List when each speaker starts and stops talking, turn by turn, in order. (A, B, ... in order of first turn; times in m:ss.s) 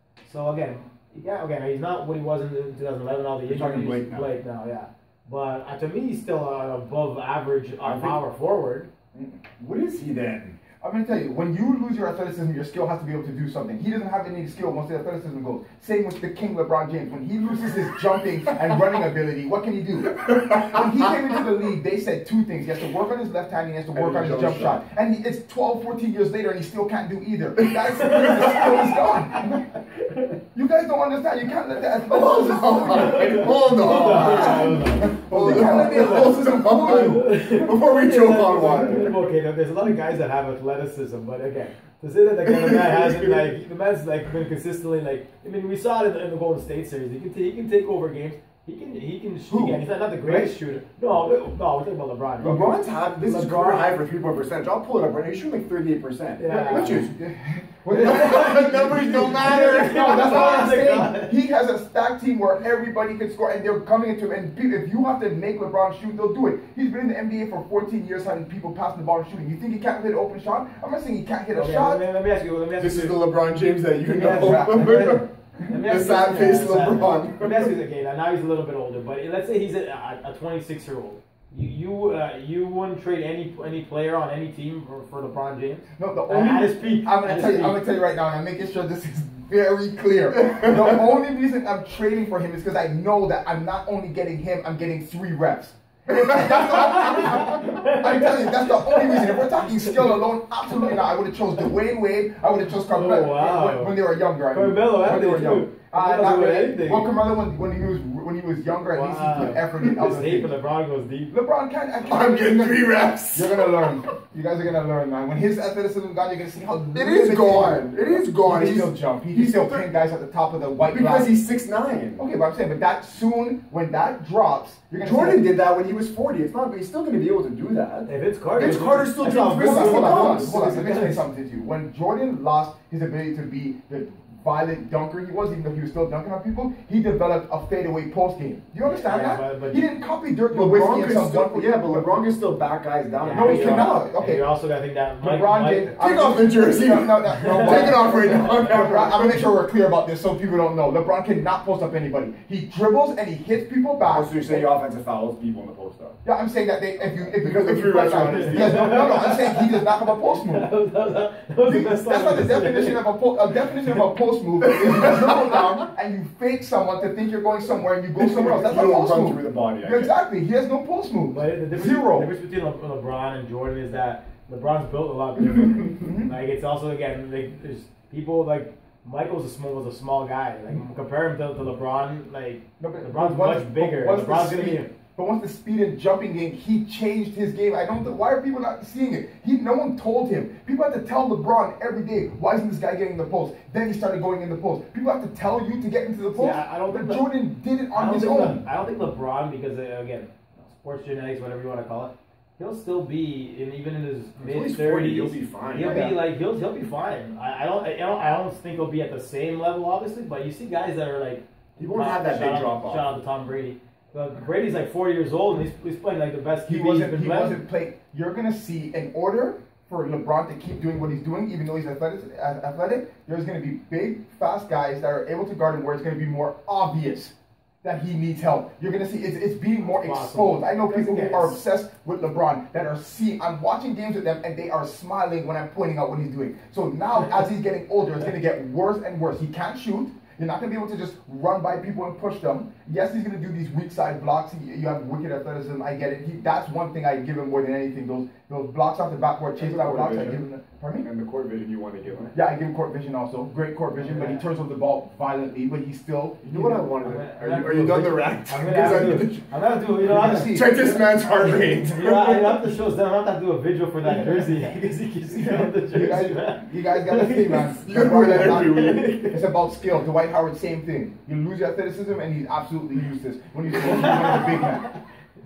0:00.2-0:08.9 A
0:03.5-0:04.3 B
0:07.8-0:08.2 B
0:09.1-0:09.4 C
0:09.6-0:10.6 B
0:10.8-0:29.6 C
0:20.3-0:20.8 B
0:23.9-0:24.8 B
0:27.6-0:28.8 B
0:28.0-0:28.6 A
0:30.5-0:37.3 C
0:32.0-0:39.2 B
0:33.0-0:54.0 A
0:42.5-0:43.4 B
0:49.5-0:49.8 B
0:50.3-0:50.5 C
0:52.4-0:57.2 B
0:56.4-0:57.1 A
0:56.5-1:12.0 C
0:57.9-1:00.7 B
0:59.4-1:01.3 A
1:11.5-1:13.2 A
1:12.8-1:17.7 B
1:14.1-1:27.8 A
1:14.1-1:15.2 C
1:26.0-1:50.5 C
1:36.8-1:40.2 A
1:42.9-1:44.0 A
1:44.5-1:47.1 A
1:48.9-1:51.3 A
1:51.3-2:01.4 C
1:52.0-1:53.9 B
1:56.9-1:59.8 B
2:00.9-2:02.2 B
2:02.2-2:05.4 C
2:05.0-2:11.1 B
2:08.1-2:11.2 A
2:09.4-2:22.2 C
2:18.8-2:19.9 A
2:20.5-2:24.0 B
2:23.2-2:25.9 A
2:23.3-2:24.4 C
2:25.2-2:34.7 C
2:26.0-2:29.5 B
2:27.4-2:28.8 A
2:34.1-2:36.2 B
2:36.2-2:40.7 C
2:37.0-2:39.4 B
2:38.3-2:43.0 A
2:41.6-2:52.3 C
2:44.6-2:45.9 B
2:48.2-2:50.1 B
2:51.3-3:04.9 A
2:55.8-2:56.3 C
3:02.8-3:18.6 C
3:16.3-3:17.3 A
3:17.9-3:37.6 A
3:24.4-3:26.0 B
3:25.8-3:26.2 C
3:31.8-3:33.2 B
3:36.7-4:11.1 C
3:49.8-3:51.6 A
4:09.6-4:10.4 B
4:11.0-4:12.3 B
4:12.3-4:16.9 C
4:14.0-4:14.5 A
4:16.4-4:19.4 B
4:17.0-4:20.6 A
4:20.0-4:21.1 C
4:20.0-4:22.6 B
4:21.9-4:27.8 A
4:24.1-4:24.4 C
4:25.3-4:34.9 C
4:27.8-4:29.2 B
4:28.5-4:29.4 A
4:33.8-4:35.0 A